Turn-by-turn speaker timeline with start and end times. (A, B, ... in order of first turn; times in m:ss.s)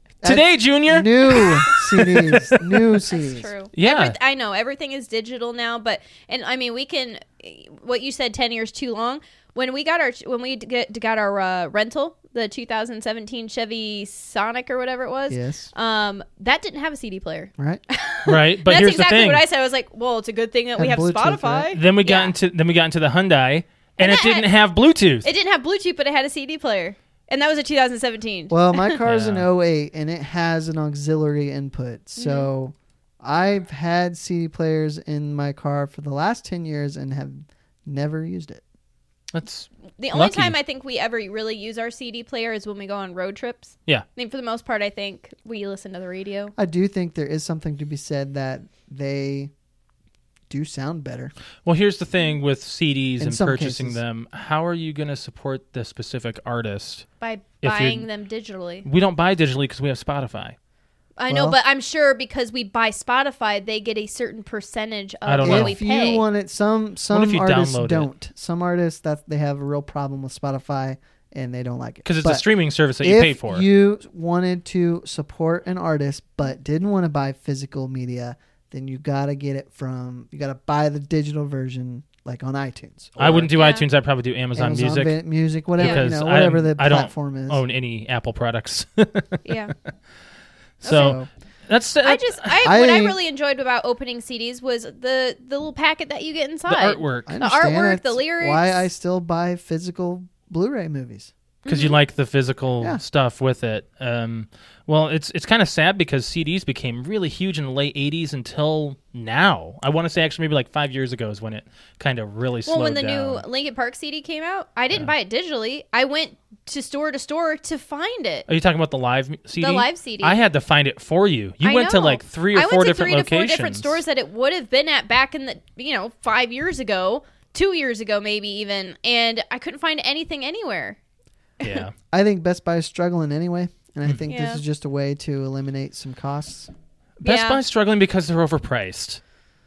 0:00.2-0:03.5 A
0:00.2-0:02.9 B
0:03.0-0:22.3 C
0:03.7-0:04.2 B
0:15.3-0:15.7 A
0:18.2-0:19.4 B
0:20.8-0:21.7 A
0:21.7-0:25.3 B
0:24.0-0:24.5 C
0:25.2-0:29.0 C
0:28.5-0:38.6 A
0:29.0-0:29.4 B
0:32.2-0:32.5 C
0:39.3-0:40.6 B
0:40.0-0:46.5 C
0:46.6-0:49.5 A
0:50.5-0:51.3 A
0:51.6-0:57.1 B
0:53.2-0:54.0 A
0:57.2-0:58.8 C
0:57.6-0:58.1 B
0:58.8-1:00.6 B
1:01.2-1:06.2 C
1:01.3-1:01.6 A
1:05.2-1:05.8 B
1:05.4-1:12.4 A
1:07.1-1:08.1 B
1:12.0-1:13.6 B
1:13.0-1:23.5 A
1:23.2-1:25.2 B
1:23.5-1:23.8 C
1:24.5-1:27.6 A
1:25.7-1:29.4 B
1:29.4-1:29.7 C
1:30.8-1:32.7 B
1:30.8-1:31.2 C
1:30.8-1:31.3 A
1:32.0-1:38.9 C
1:32.6-1:33.2 A
1:36.7-1:37.4 B
1:37.2-1:41.3 A
1:41.6-1:42.0 C
1:41.7-1:53.4 B
1:52.6-1:58.5 C
1:58.5-2:04.0 B
1:59.6-2:00.4 C
2:01.6-2:11.0 C
2:11.6-2:11.9 B
2:12.1-2:16.7 A
2:14.3-2:14.6 C
2:17.2-2:19.2 B
2:17.2-2:17.6 C